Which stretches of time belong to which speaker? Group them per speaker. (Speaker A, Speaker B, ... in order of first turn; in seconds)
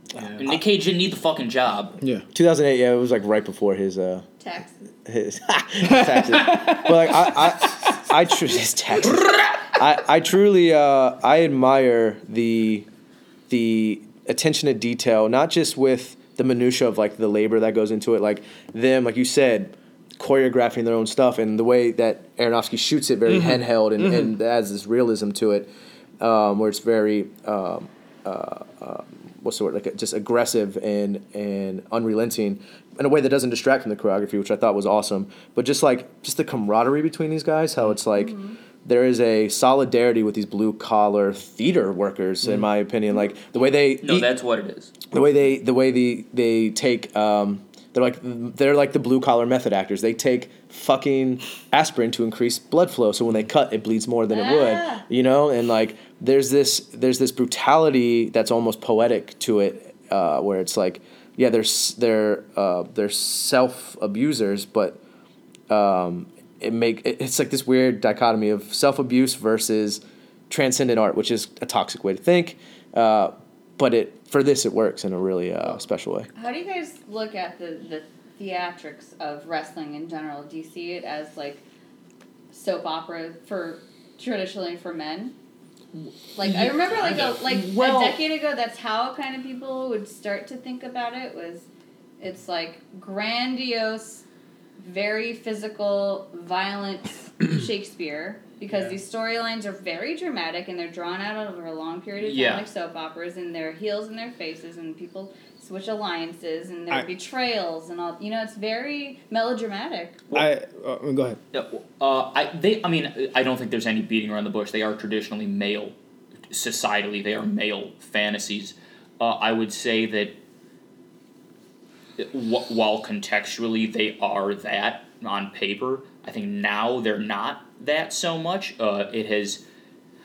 Speaker A: 0.4-2.0, 44.0-44.9, 86.5-88.2, 102.2-102.7, 111.5-116.0, 116.5-120.3, 122.2-129.6
Speaker B: 2.3-4.3, 5.1-12.9, 13.5-25.7, 26.2-44.3, 45.1-65.0, 65.7-76.3
Speaker C: 4.4-4.8, 38.2-38.6, 54.3-55.0, 76.4-81.6, 82.5-85.3, 86.4-91.7, 92.2-94.2, 94.8-110.2
Speaker D: 5.8-7.9, 23.3-24.3, 110.3-111.4